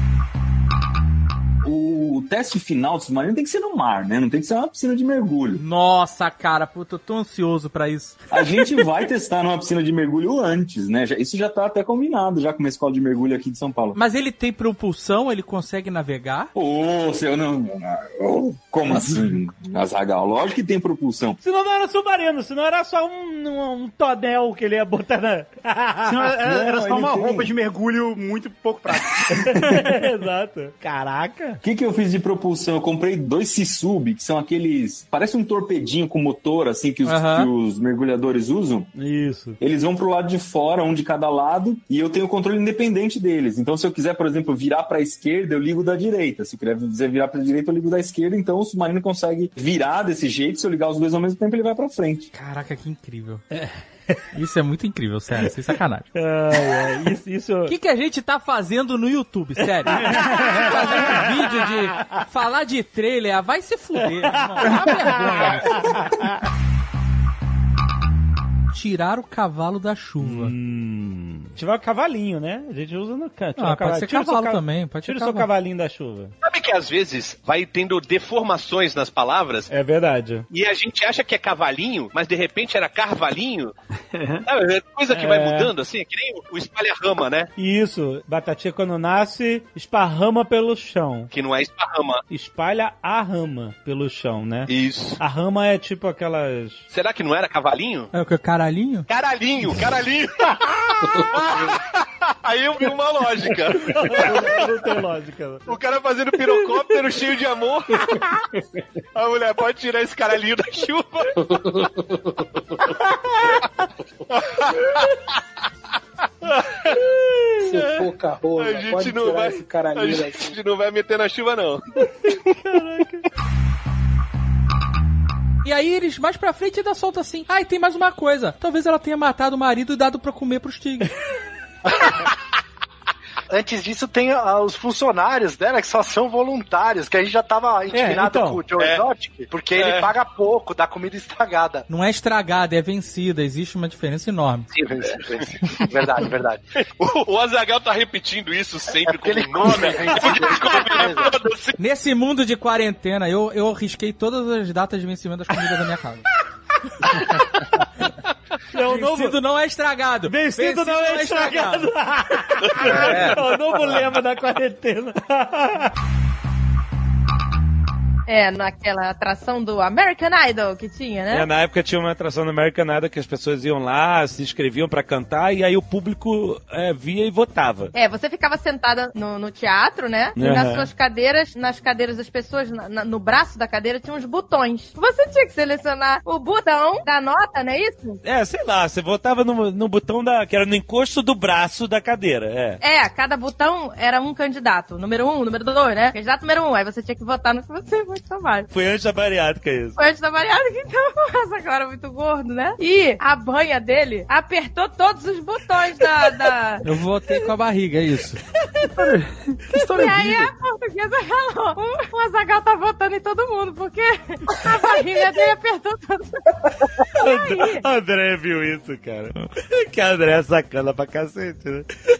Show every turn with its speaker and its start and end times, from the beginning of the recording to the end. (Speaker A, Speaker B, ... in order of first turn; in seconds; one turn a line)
Speaker A: 1.6-5.6
Speaker B: 5.6-8.2
Speaker A: 8.3-14.0
Speaker B: 13.9-16.5
Speaker A: 16.5-21.4
Speaker C: 21.4-27.4
Speaker D: 26.4-29.1
Speaker A: 26.8-27.3
Speaker C: 29.3-31.6
Speaker A: 31.6-38.9
Speaker B: 37.0-37.5
Speaker C: 39.0-39.6
Speaker A: 39.6-52.3
Speaker B: 52.3-53.4
Speaker B: 54.3-56.1
Speaker C: 56.1-57.7
Speaker B: 57.7-65.8
Speaker C: 60.0-61.0
Speaker C: 64.6-66.0
Speaker B: 68.7-70.5
Speaker C: 70.2-76.3
Speaker B: 73.6-75.5
Speaker E: 76.4-79.7
Speaker C: 79.7-80.5
Speaker E: 80.5-83.7
Speaker E: 84.4-87.5
Speaker C: 85.1-85.7
Speaker C: 87.6-91.3
Speaker E: 91.3-92.2
Speaker C: 92.3-96.8
Speaker E: 94.7-95.2
Speaker E: 96.9-98.1
Speaker B: 98.1-99.0
Speaker E: 99.1-100.5
Speaker E: 102.4-104.3
Speaker C: 103.9-105.7
Speaker E: 105.7-108.1
Speaker E: 109.1-111.5
Speaker F: 117.6-120.4
Speaker E: 118.6-121.8
Speaker C: 122.7-123.2
Speaker B: 125.6-131.1
Speaker G: 133.5-141.8
Speaker C: 137.9-138.6
Speaker E: 138.8-139.1
Speaker E: 139.8-140.1
Speaker B: 141.9-144.7
Speaker G: 144.8-145.3
Speaker G: 146.1-146.4
Speaker E: 147.0-151.8
Speaker G: 149.1-151.3
Speaker B: 151.8-156.2
Speaker C: 158.7-159.3
Speaker B: 158.9-161.9
Speaker C: 160.3-165.8
Speaker E: 162.7-163.3
Speaker H: 168.3-171.4
Speaker C: 171.3-177.9
Speaker H: 177.9-188.2
Speaker C: 180.3-180.9
Speaker C: 188.2-192.8
Speaker H: 192.8-198.7
Speaker C: 198.7-200.0
Speaker H: 200.0-206.8
Speaker B: 206.8-208.4
Speaker H: 209.8-216.2
Speaker C: 217.2-221.8